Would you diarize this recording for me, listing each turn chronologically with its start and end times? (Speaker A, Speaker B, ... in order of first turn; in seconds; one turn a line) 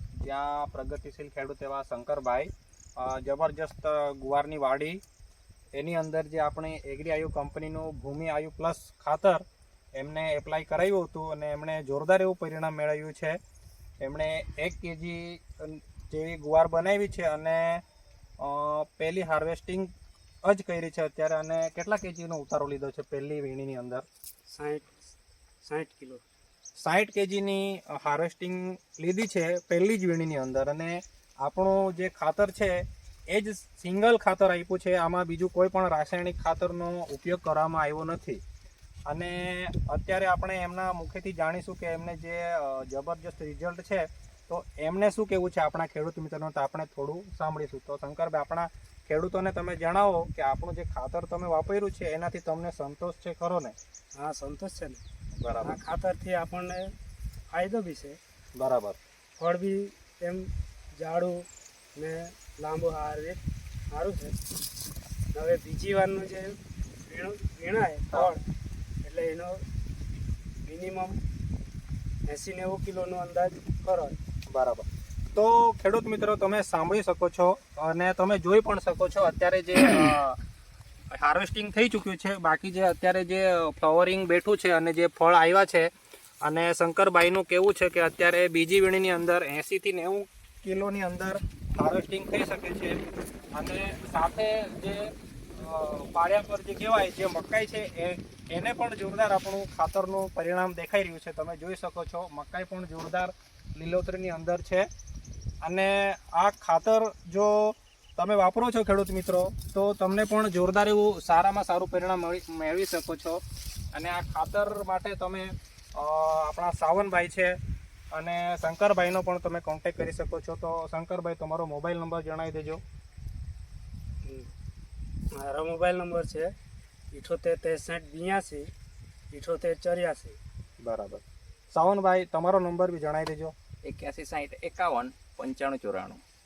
Speaker A: 0.2-5.0
Speaker A: 5.7-9.4
Speaker A: 10.0-13.4
Speaker A: 14.0-17.8
Speaker A: 18.4-19.9
Speaker A: 20.4-24.0
Speaker B: 24.5-26.2
Speaker A: 26.8-38.4
Speaker A: 39.1-53.7
Speaker B: 54.1-55.0
Speaker A: 55.4-55.8
Speaker B: 55.6-56.9
Speaker B: 57.5-58.2
Speaker A: 58.6-59.0
Speaker B: 59.4-64.4
Speaker B: 65.3-68.4
Speaker B: 69.0-69.6
Speaker B: 70.6-71.2
Speaker B: 72.3-74.2
Speaker A: 74.5-80.4
Speaker A: 81.1-85.9
Speaker A: 86.4-93.0
Speaker A: 93.5-104.9
Speaker A: 105.6-113.4
Speaker A: 113.9-117.6
Speaker A: 118.1-122.8
Speaker B: 124.2-124.5
Speaker B: 125.3-126.5
Speaker B: 127.1-128.7
Speaker B: 129.3-130.4
Speaker A: 130.8-133.5
Speaker C: 133.8-136.2